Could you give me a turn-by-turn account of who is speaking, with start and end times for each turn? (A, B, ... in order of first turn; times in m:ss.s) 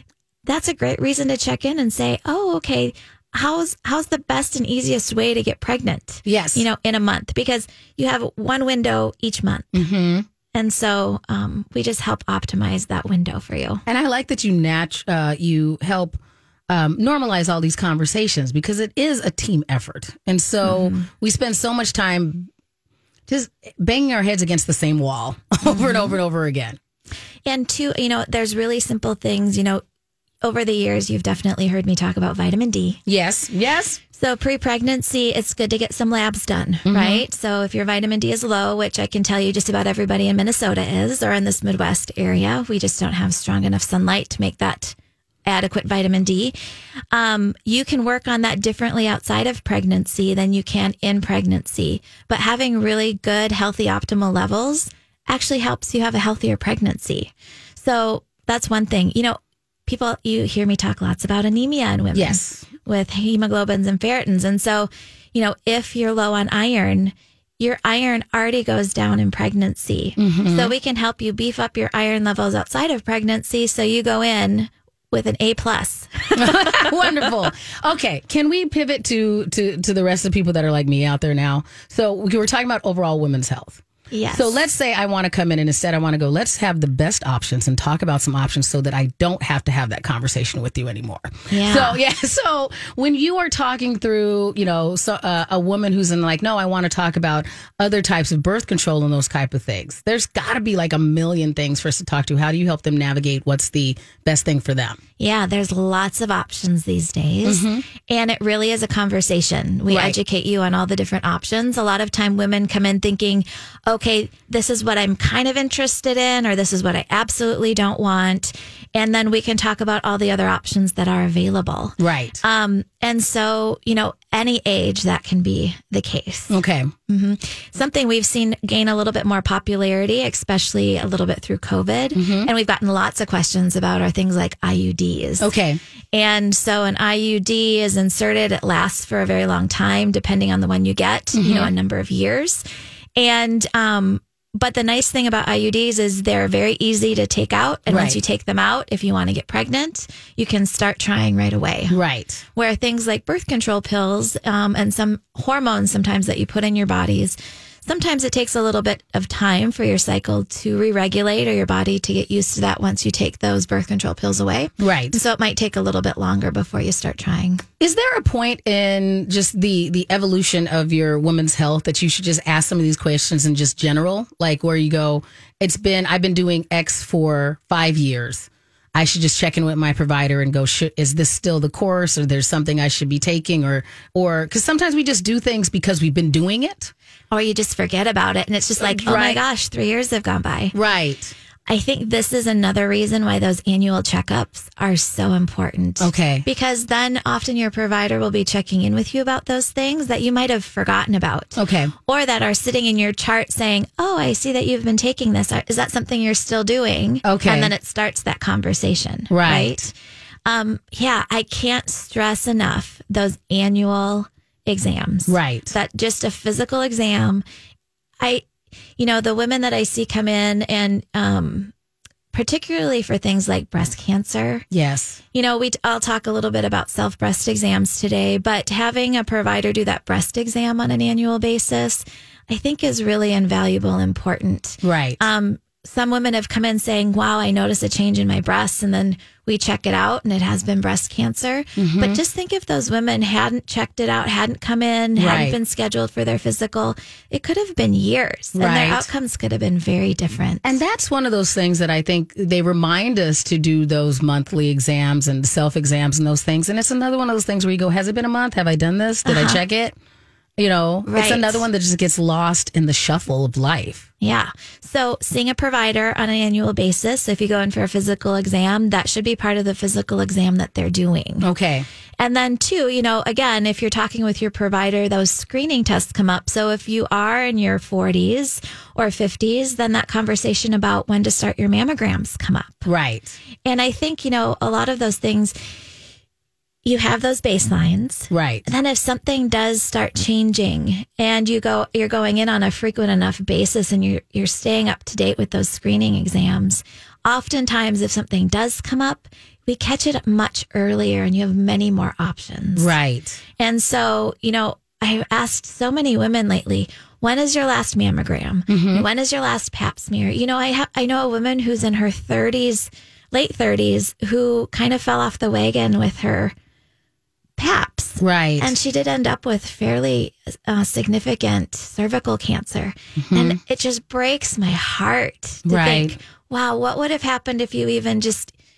0:00.4-0:09.8 A
0:06.2-0:06.6 B
0:09.7-0:10.2 B
0:10.5-0:13.8 A
0:13.8-0:22.5 B
0:20.6-0:21.1 A
0:23.3-0:26.8 B
0:25.6-0:26.1 A
0:27.4-0:29.8 A
0:30.4-0:33.0 A
0:33.0-0:34.0 B
0:34.1-0:44.9 A
0:36.8-0:37.2 B
0:45.4-0:46.5 A
0:47.1-1:17.3 A
1:02.1-1:02.6 B
1:10.2-1:10.7 B
1:16.4-1:45.0 B
1:24.1-1:24.6 A
1:31.5-1:32.0 A
1:45.2-2:06.5 A
1:47.4-1:47.8 B
1:49.9-1:50.2 B
2:02.0-2:02.4 B
2:06.5-2:06.9 B
2:07.1-2:15.5 A
2:12.1-2:12.5 B
2:15.4-2:15.8 B
2:16.1-2:22.6 A
2:21.4-2:21.7 B
2:23.2-2:31.9 A
2:27.9-2:28.2 B
2:31.9-2:32.4 B
2:32.5-2:47.6 A
2:44.8-2:45.2 B
2:47.8-3:06.9 B
3:07.3-3:10.7 A
3:08.8-3:09.4 B
3:10.7-3:11.3 B
3:11.7-3:29.9 A
3:16.0-3:16.4 B
3:21.6-3:21.9 B
3:27.2-3:27.7 B
3:29.3-3:29.8 B
3:30.4-3:37.4 A
3:35.3-3:35.7 B
3:38.2-3:38.4 A
3:39.0-3:41.7 A
3:42.3-3:44.6 A
3:44.7-3:45.2 B
3:45.3-4:10.8 A
3:54.8-3:55.2 B
4:01.8-4:02.2 B
4:05.2-4:05.6 B
4:08.5-4:09.1 B
4:10.6-4:19.9 B
4:19.2-4:19.6 A
4:20.6-4:24.1 B
4:21.0-4:21.6 A
4:24.2-4:31.4 A
4:31.4-4:31.9 B
4:32.2-4:42.9 A
4:42.8-4:43.4 B
4:43.6-4:45.5 A
4:46.8-5:02.9 A
4:48.3-4:48.6 B
5:02.8-5:03.4 B
5:03.6-5:16.5 A
5:08.7-5:09.0 B
5:17.6-5:28.5 A
5:18.2-5:18.7 B
5:23.2-5:23.6 B
5:25.6-5:26.2 B